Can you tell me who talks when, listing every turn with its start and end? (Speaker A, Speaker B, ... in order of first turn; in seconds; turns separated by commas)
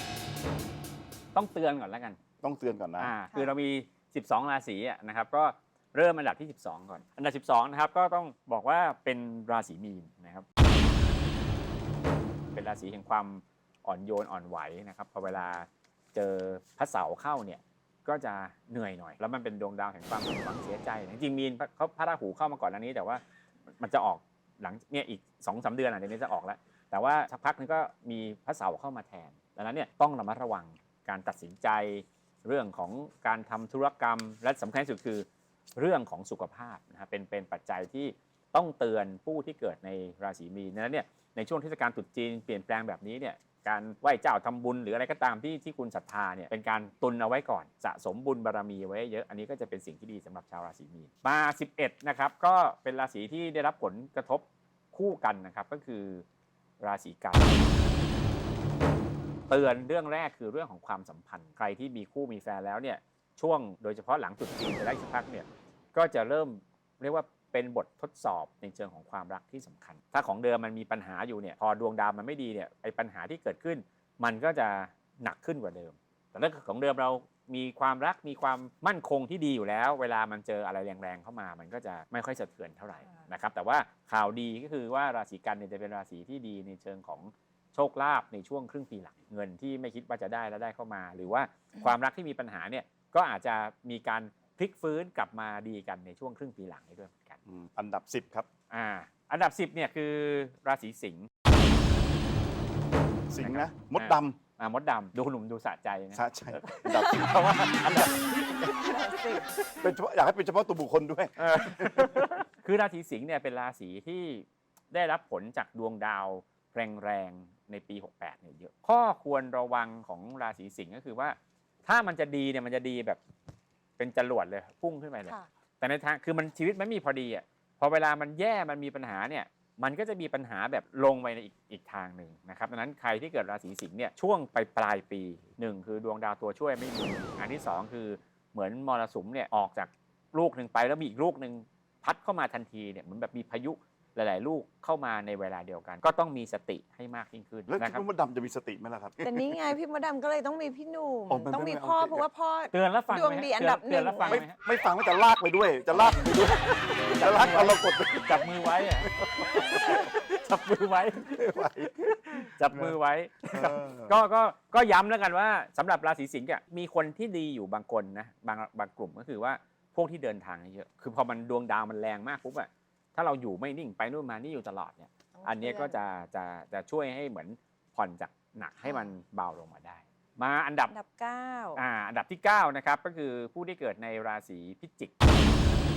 Speaker A: 1.3-2.2, Speaker B: 2.4-3.1, Speaker A: 3.0-10.4, Speaker A: 12.5-23.2, Speaker A: 23.8-56.2, Speaker A: 56.8-57.7, Speaker A: 59.5-97.4, Speaker B: 97.5-98.5, Speaker A: 98.7-101.3, Speaker B: 103.3-104.4, Speaker A: 103.4-108.3, Speaker B: 106.1-108.7, Speaker C: 106.9-107.3, Speaker C: 108.6-109.5, Speaker B: 109.8-112.2, Speaker A: 111.4-123.2, Speaker A: 124.0-148.0, Speaker B: 147.7-149.6, Speaker C: 149.2-154.4, Speaker B: 151.3-152.2, Speaker A: 152.7-154.6, Speaker B: 154.3-156.7, Speaker A: 155.9-180.9, Speaker B: 157.2-158.5, Speaker B: 159.1-159.9, Speaker B: 161.3-162.9, Speaker B: 163.5-164.2, Speaker C: 175.3-176.0, Speaker C: 178.8-179.1, Speaker C: 180.9-181.8, Speaker A: 181.7-185.1